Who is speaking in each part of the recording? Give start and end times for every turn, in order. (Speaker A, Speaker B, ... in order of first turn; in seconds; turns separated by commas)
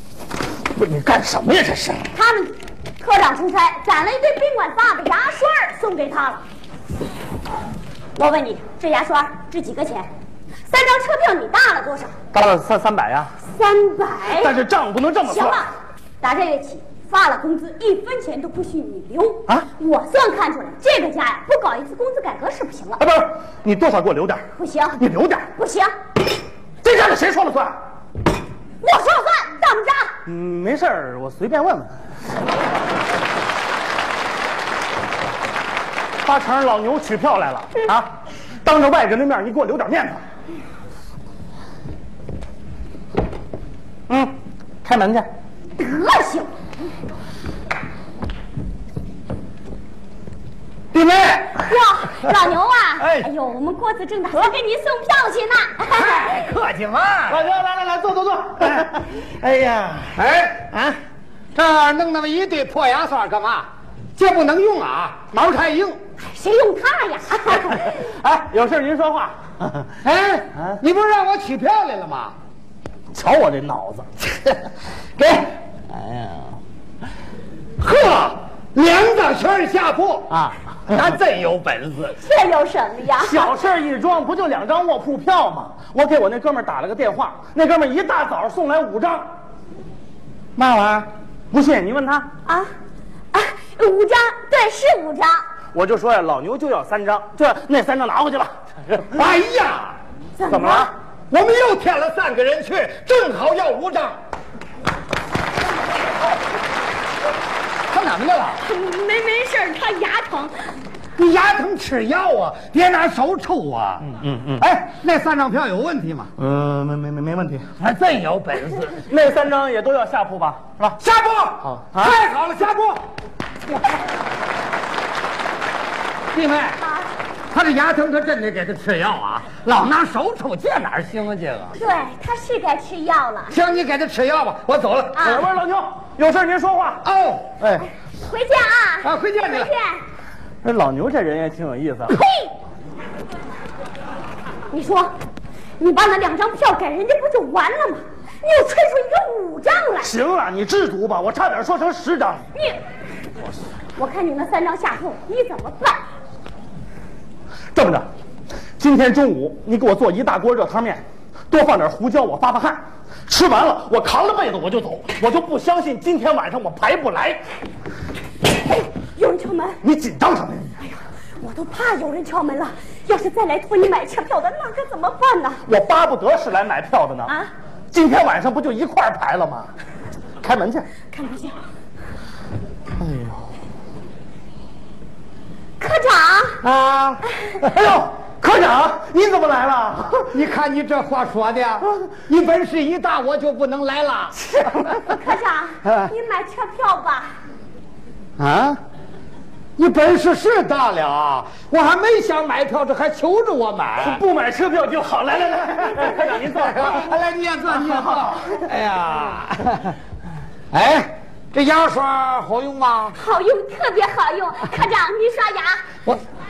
Speaker A: 0.7-2.1, Speaker B: 2.1-6.4, Speaker B: 8.2-10.1, Speaker B: 10.7-12.1, Speaker A: 12.3-13.3, Speaker B: 13.5-14.6, Speaker A: 14.3-15.6, Speaker B: 15.2-23.0, Speaker A: 23.0-25.5, Speaker B: 24.6-25.0, Speaker B: 25.6-25.9, Speaker A: 26.8-27.8, Speaker B: 28.8-30.1, Speaker A: 30.2-31.9, Speaker A: 36.2-40.2, Speaker A: 44.1-45.3, Speaker B: 45.8-46.5, Speaker A: 51.0-51.4, Speaker B: 51.5-56.5, Speaker C: 55.9-57.4, Speaker A: 57.3-60.2, Speaker C: 60.1-61.0, Speaker C: 61.5-66.0, Speaker B: 66.2-68.1, Speaker A: 67.5-69.9, Speaker C: 70.0-72.3, Speaker A: 73.1-74.1, Speaker A: 75.2-75.5, Speaker C: 77.8-82.2, Speaker A: 80.3-80.5, Speaker B: 82.2-83.5, Speaker A: 83.2-89.3, Speaker C: 90.5-91.1, Speaker A: 91.5-92.3, Speaker B: 92.5-92.7, Speaker B: 93.3-95.4, Speaker A: 95.7-99.2, Speaker C: 99.1-100.0, Speaker B: 100.4-100.9, Speaker A: 100.5-100.9, Speaker C: 101.3-104.2, Speaker C: 107.9-108.6, Speaker B: 108.6-110.5, Speaker C: 111.2-114.1, Speaker A: 114.0-114.7, Speaker C: 114.6-116.3, Speaker A: 116.4-117.7, Speaker C: 117.8-119.0, Speaker A: 119.0-121.0, Speaker C: 121.0-123.1, Speaker A: 121.7-122.2, Speaker B: 123.7-124.0, Speaker C: 126.3-126.8, Speaker B: 126.8-127.1, Speaker C: 127.5-131.8, Speaker B: 131.8-133.6, Speaker C: 133.5-135.2, Speaker B: 135.1-135.5, Speaker A: 135.2-137.0, Speaker C: 137.0-137.5, Speaker A: 137.6-137.9, Speaker B: 138.2-140.0, Speaker C: 139.0-139.7, Speaker A: 140.6-142.2, Speaker B: 142.1-142.5, Speaker B: 144.7-145.1, Speaker B: 145.8-150.1, Speaker A: 150.0-152.5, Speaker B: 153.9-156.0, Speaker A: 157.7-158.1, Speaker A: 158.8-167.4, Speaker B: 168.7-169.8, Speaker A: 169.8-170.8, Speaker B: 170.9-175.6, Speaker A: 175.7-177.3, Speaker B: 177.2-177.5, Speaker A: 177.9-179.7, Speaker A: 180.4-180.9, Speaker B: 181.1-181.6, Speaker A: 183.0-183.4, Speaker B: 185.8-186.6, Speaker C: 186.6-187.3, Speaker A: 187.6-190.3, Speaker C: 190.3-195.0, Speaker A: 194.6-195.0, Speaker B: 195.0-197.3, Speaker C: 195.8-196.1, Speaker C: 198.4-198.8, Speaker C: 199.8-204.2, Speaker A: 204.0-207.2, Speaker C: 205.8-209.9, Speaker A: 207.7-208.6, Speaker C: 210.7-213.2, Speaker B: 213.1-215.8